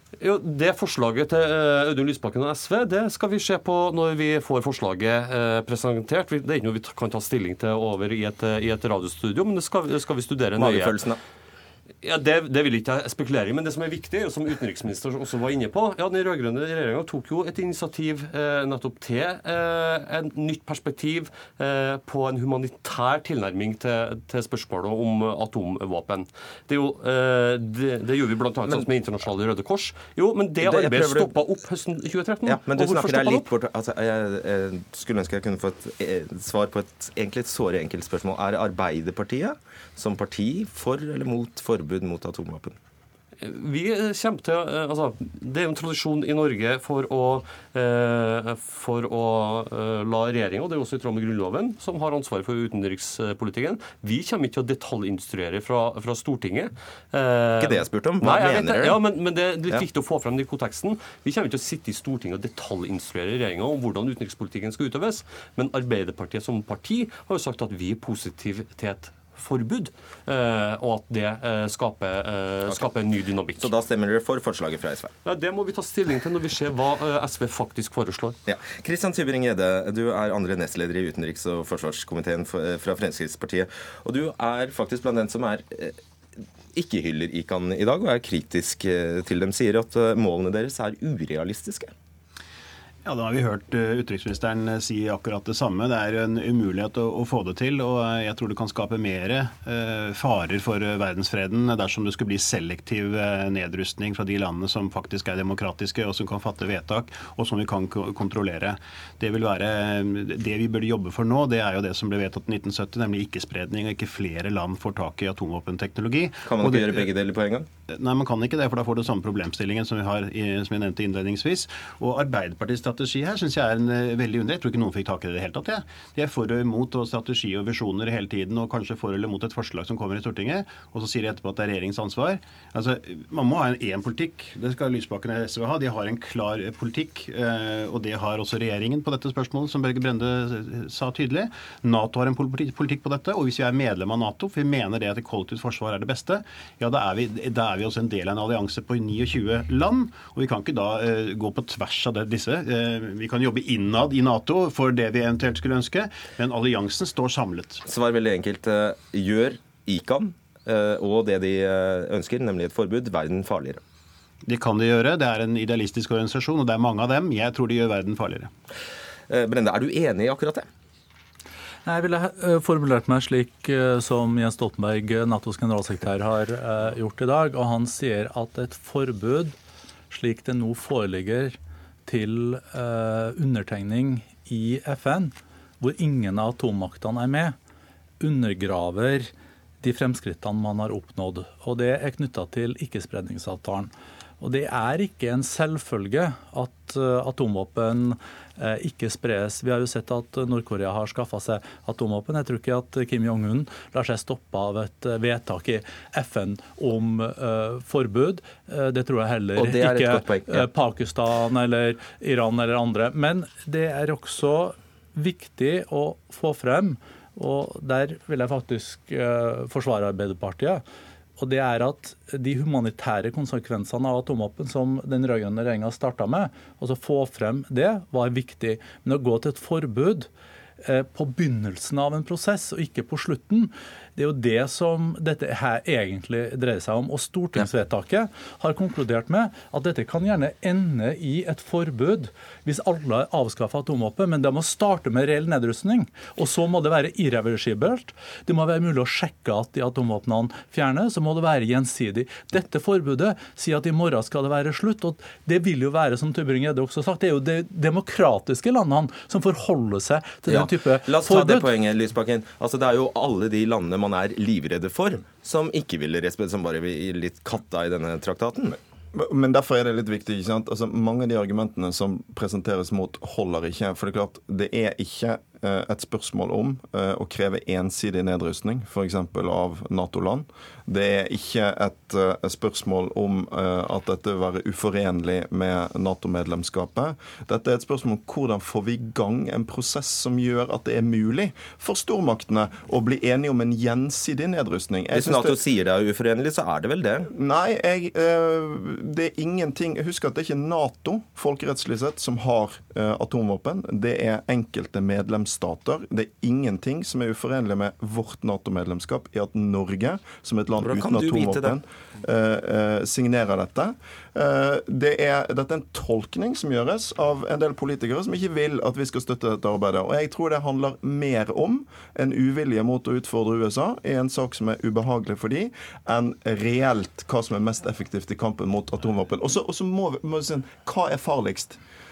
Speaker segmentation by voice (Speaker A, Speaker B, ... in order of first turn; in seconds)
Speaker A: 0.2-11.1, 12.0-33.5, 43.4-73.7, 75.2-78.4
Speaker B: 10.6-11.2, 30.6-31.3, 32.5-42.8, 57.6-59.0, 73.6-75.1, 78.5-86.0, 86.7-91.9, 116.4-117.7, 157.9-163.8, 169.3-170.7, 209.6-210.7, 260.5-268.8, 295.1-297.3, 310.8-311.8
Speaker C: 93.0-117.1, 117.9-157.8, 164.4-168.5
Speaker D: 171.8-179.5, 180.1-187.6, 188.2-189.3, 189.8-220.8, 221.4-230.3, 230.8-261.7
Speaker E: 269.1-295.6, 297.2-331.8